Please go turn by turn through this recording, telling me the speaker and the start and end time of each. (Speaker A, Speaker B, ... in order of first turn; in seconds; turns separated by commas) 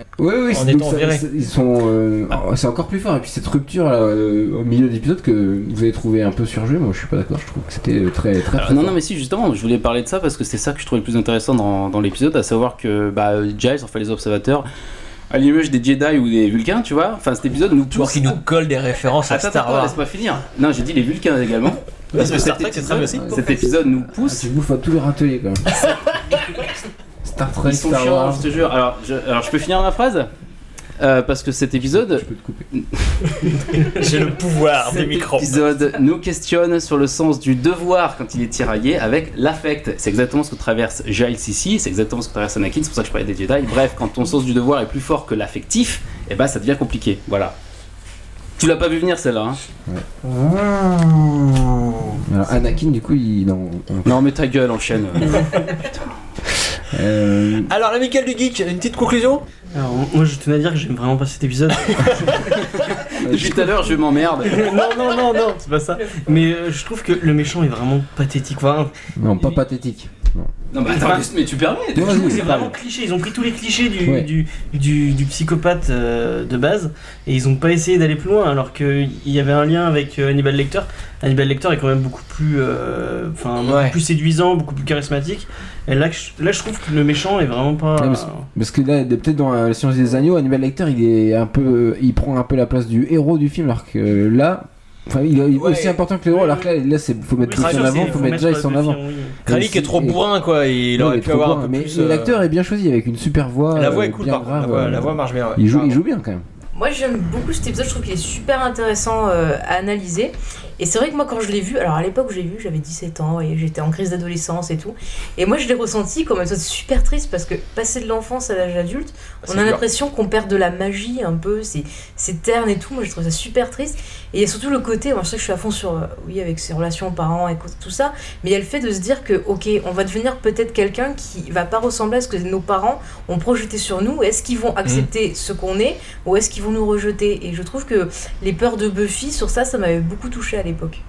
Speaker A: 0.2-9.0, Speaker B: 0.5-1.2, Speaker C: 8.5-14.7, Speaker C: 15.3-18.4, Speaker B: 17.9-20.0, Speaker C: 19.3-24.5, Speaker B: 22.1-23.5, Speaker A: 23.1-25.8, Speaker B: 25.8-26.4, Speaker A: 27.2-28.5, Speaker C: 27.6-30.3, Speaker C: 31.0-33.1, Speaker A: 31.9-32.7, Speaker B: 33.8-35.7, Speaker C: 34.8-47.5, Speaker C: 48.6-49.6, Speaker B: 50.2-52.2, Speaker A: 52.2-54.2, Speaker C: 54.0-56.1, Speaker A: 56.9-57.7, Speaker B: 57.7-59.4, Speaker D: 59.7-62.6, Speaker B: 61.9-62.2, Speaker C: 63.0-64.8, Speaker A: 63.2-63.9, Speaker D: 64.5-68.9, Speaker A: 69.2-70.5, Speaker C: 70.7-72.6, Speaker D: 70.9-71.3, Speaker A: 71.9-72.7, Speaker D: 71.9-88.5, Speaker A: 74.0-74.3, Speaker B: 83.6-84.0, Speaker A: 88.0-100.2, Speaker B: 95.5-96.0, Speaker D: 96.3-96.7, Speaker D: 97.4-99.4, Speaker B: 97.5-98.3, Speaker B: 99.5-102.4, Speaker A: 100.9-106.4, Speaker B: 103.7-106.0, Speaker E: 106.7-141.0, Speaker B: 119.5-119.8